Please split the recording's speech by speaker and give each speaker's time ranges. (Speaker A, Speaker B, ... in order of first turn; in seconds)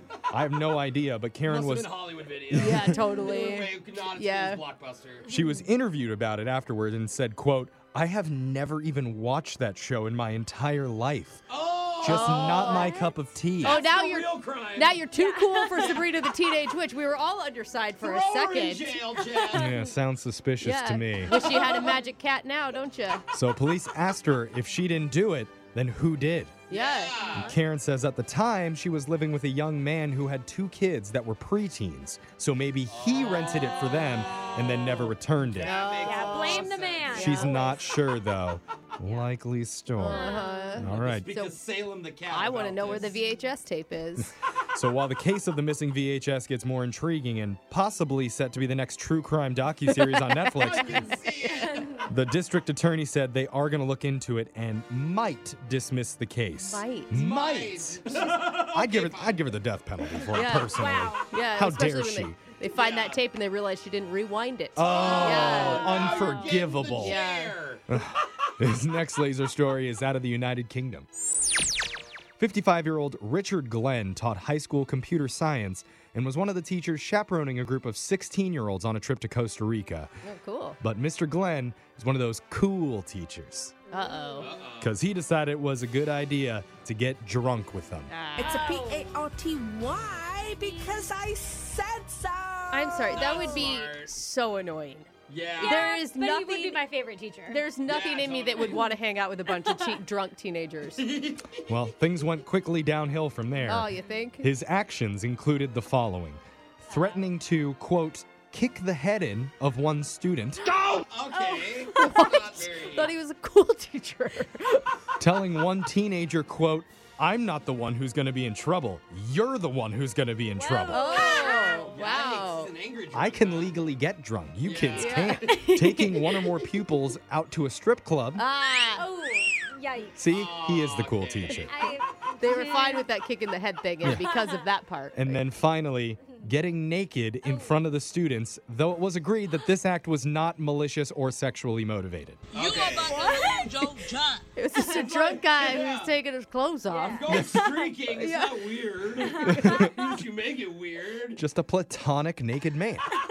Speaker A: 0.3-1.9, 2.5-3.0, 5.3-11.4, 12.0-13.8, 19.5-21.4, 23.3-26.6, 27.4-35.8, 37.1-41.3, 44.2-51.1, 52.0-62.4, 64.8-67.2, 67.9-71.1, 72.4-80.1, 80.8-83.8, 84.8-88.1, 101.7-110.7, 115.2-121.4, 123.1-128.4, 130.2-131.8, 135.2-142.4, 149.6-149.8, 151.3-153.1
Speaker B: 1.4-5.3, 11.5-13.0, 13.6-15.1, 15.7-16.1, 18.0-19.8, 21.4-21.9, 26.7-27.5, 32.9-37.8, 40.8-43.2, 50.5-52.1, 57.1-59.6, 62.7-63.2, 64.8-67.9, 84.4-85.0, 93.1-94.2, 95.3-96.0, 97.9-98.9, 101.0-101.8, 110.7-113.1, 121.5-123.8, 124.6-125.7, 130.3-131.6, 142.5-143.4, 144.8-146.1, 147.1-151.4
Speaker C: 2.5-4.6, 12.0-13.1, 13.6-19.0, 20.6-23.2, 26.7-27.4, 35.6-37.8, 40.0-41.6, 42.3-44.3, 56.6-57.2, 60.3-67.6, 80.2-80.8, 83.9-84.5, 88.1-88.7, 92.7-96.8, 97.5-101.1, 103.7-104.5, 111.3-114.9, 120.9-122.7, 124.9-126.7, 128.3-129.1, 132.4-135.4, 144.6-149.9
Speaker D: 15.1-15.9, 36.0-37.8, 40.1-40.8, 60.5-61.3, 65.9-66.6, 84.0-84.4, 88.4-89.1, 90.5-91.1, 93.3-93.7, 95.6-97.6, 120.5-122.0, 128.9-130.2, 131.7-133.1, 134.1-134.4, 137.4-137.8, 142.9-144.0, 146.9-147.5, 149.2-149.7
Speaker E: 88.4-93.2, 142.5-144.4